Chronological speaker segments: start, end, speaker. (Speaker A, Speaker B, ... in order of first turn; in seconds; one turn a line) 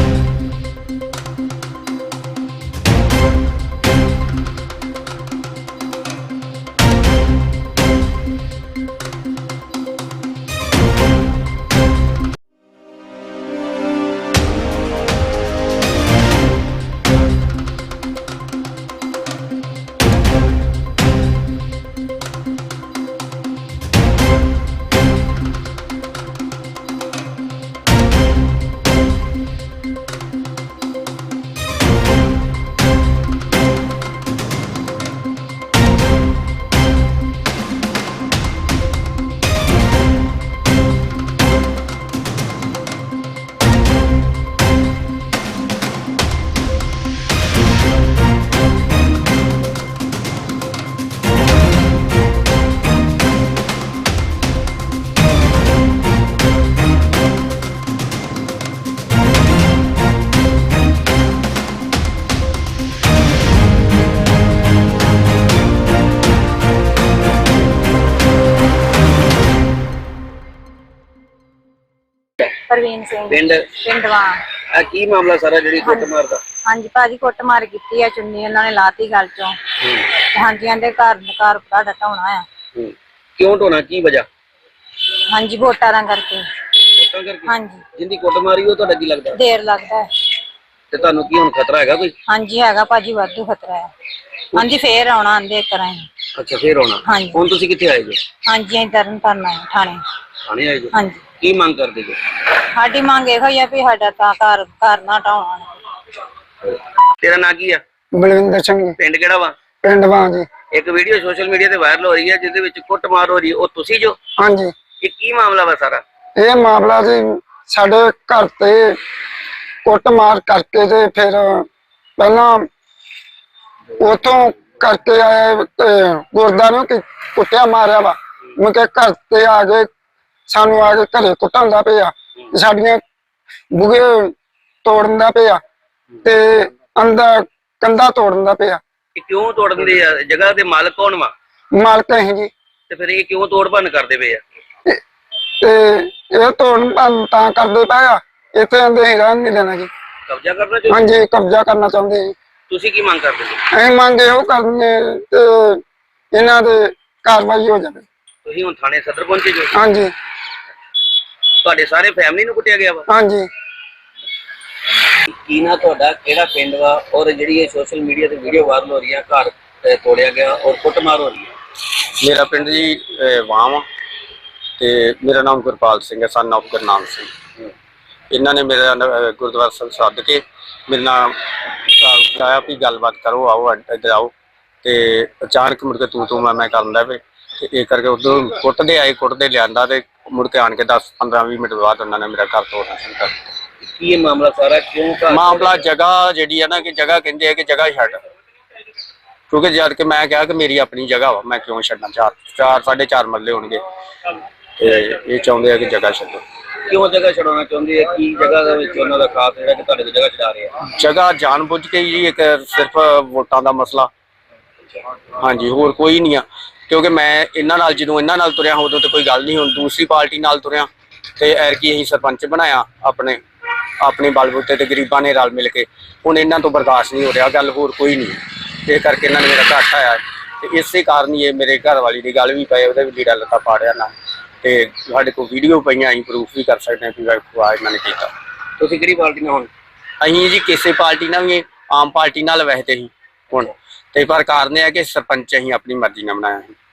Speaker A: 72.5-74.4
Speaker B: 73.3-73.6
Speaker B: 74.7-76.4
Speaker A: 75.8-76.1
Speaker A: 76.6-79.6
Speaker A: 80.3-82.4
Speaker B: 82.7-84.2
Speaker A: 85.3-86.4
Speaker B: 86.9-89.4
Speaker A: 87.5-87.8
Speaker A: 89.3-90.1
Speaker B: 90.9-92.1
Speaker A: 92.2-93.9
Speaker A: 94.5-96.1
Speaker B: 96.3-98.2
Speaker A: 97.0-97.4
Speaker A: 98.5-100.0
Speaker B: 100.5-102.2
Speaker A: 100.9-101.2
Speaker A: 102.6-105.7
Speaker B: 107.2-107.8
Speaker C: 108.1-109.0
Speaker B: 109.0-109.5
Speaker C: 109.8-110.5
Speaker B: 110.7-114.2
Speaker C: 114.4-114.7
Speaker B: 115.0-116.0
Speaker C: 116.4-119.0
Speaker C: 119.8-121.7
Speaker C: 122.2-122.7
Speaker C: 124.0-129.9
Speaker C: 130.5-133.0
Speaker C: 133.7-134.3
Speaker C: 134.8-135.6
Speaker C: 136.2-138.8
Speaker B: 139.2-141.3
Speaker C: 141.7-142.5
Speaker B: 142.9-144.4
Speaker C: 145.6-149.9
Speaker B: 150.3-151.0
Speaker C: 150.9-152.3
Speaker B: 152.7-153.6
Speaker C: 153.7-155.8
Speaker C: 156.3-158.1
Speaker B: 158.4-159.7
Speaker C: 159.7-160.1
Speaker B: 161.6-163.0
Speaker C: 163.1-163.5
Speaker B: 165.3-171.5
Speaker D: 172.2-173.8
Speaker D: 174.8-177.3
Speaker D: 178.3-184.3
Speaker D: 184.8-193.4
Speaker B: 193.9-195.8
Speaker D: 195.3-198.2
Speaker D: 199.5-203.8
Speaker D: 204.8-206.4
Speaker B: 206.9-210.8
Speaker D: 210.9-214.1
Speaker D: 215.4-223.4
Speaker D: 224.0-238.3
Speaker B: 238.8-239.7
Speaker D: 240.2-246.8